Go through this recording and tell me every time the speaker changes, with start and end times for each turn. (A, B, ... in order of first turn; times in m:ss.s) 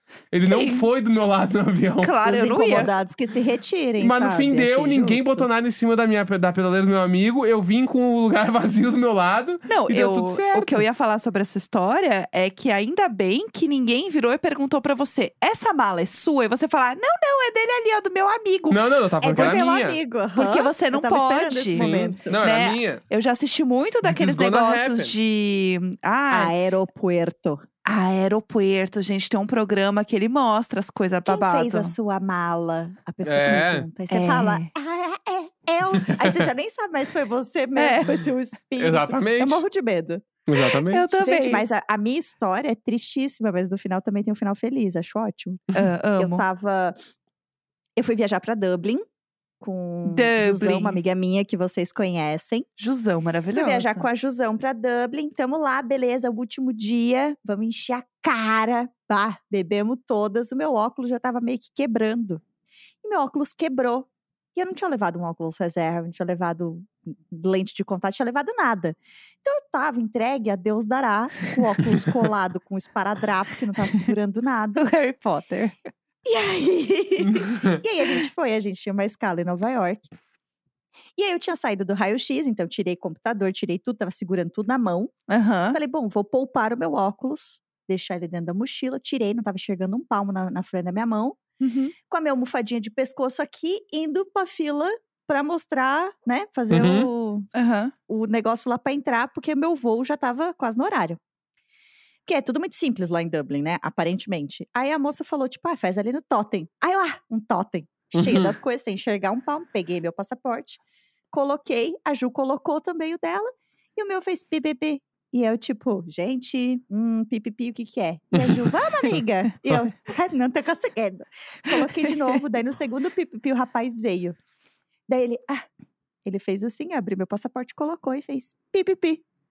0:00.3-0:02.2 A
0:00.4-0:00.9 B
0:02.0-0:02.9 B
0:02.2-0:05.5 C
0:04.0-0:10.8 A
0:09.7-0:18.8 B
0:18.7-0:20.0 A
0:19.2-0:22.4 C
0:20.3-0:26.5 B
0:21.7-0:23.0 A
0:24.0-0:25.1 A
0:26.3-0:27.6 C
0:27.8-0:31.9 B
0:31.2-0:40.2 C
0:33.2-0:33.9 A
0:34.1-0:34.7 B
0:36.0-0:36.5 A
0:37.8-0:38.2 B
0:38.8-0:39.6 A
0:40.5-0:41.0 A
0:40.9-0:41.6 B
0:41.2-0:45.6 C
0:45.7-0:46.4 B
0:46.2-0:47.0 C
0:48.0-0:49.0 C
0:49.6-0:52.7 C
0:50.0-0:51.0 B
0:52.8-0:54.0 B
0:53.5-1:02.4 C
1:03.0-1:14.9 C
1:14.8-1:15.7 B
1:16.2-1:20.1 C
1:17.2-1:17.8 A
1:21.2-1:25.1 C
1:25.3-1:25.8 B
1:25.7-1:31.4 C
1:31.6-1:31.9 B
1:32.1-1:37.5 C
1:36.7-1:37.1 A
1:37.5-1:37.9 B
1:38.1-1:41.2 C
1:42.2-1:50.8 C
1:48.1-1:48.5 A
1:51.3-2:04.4 C
2:01.7-2:02.3 B
2:05.1-2:05.6 C
2:06.2-2:09.2 C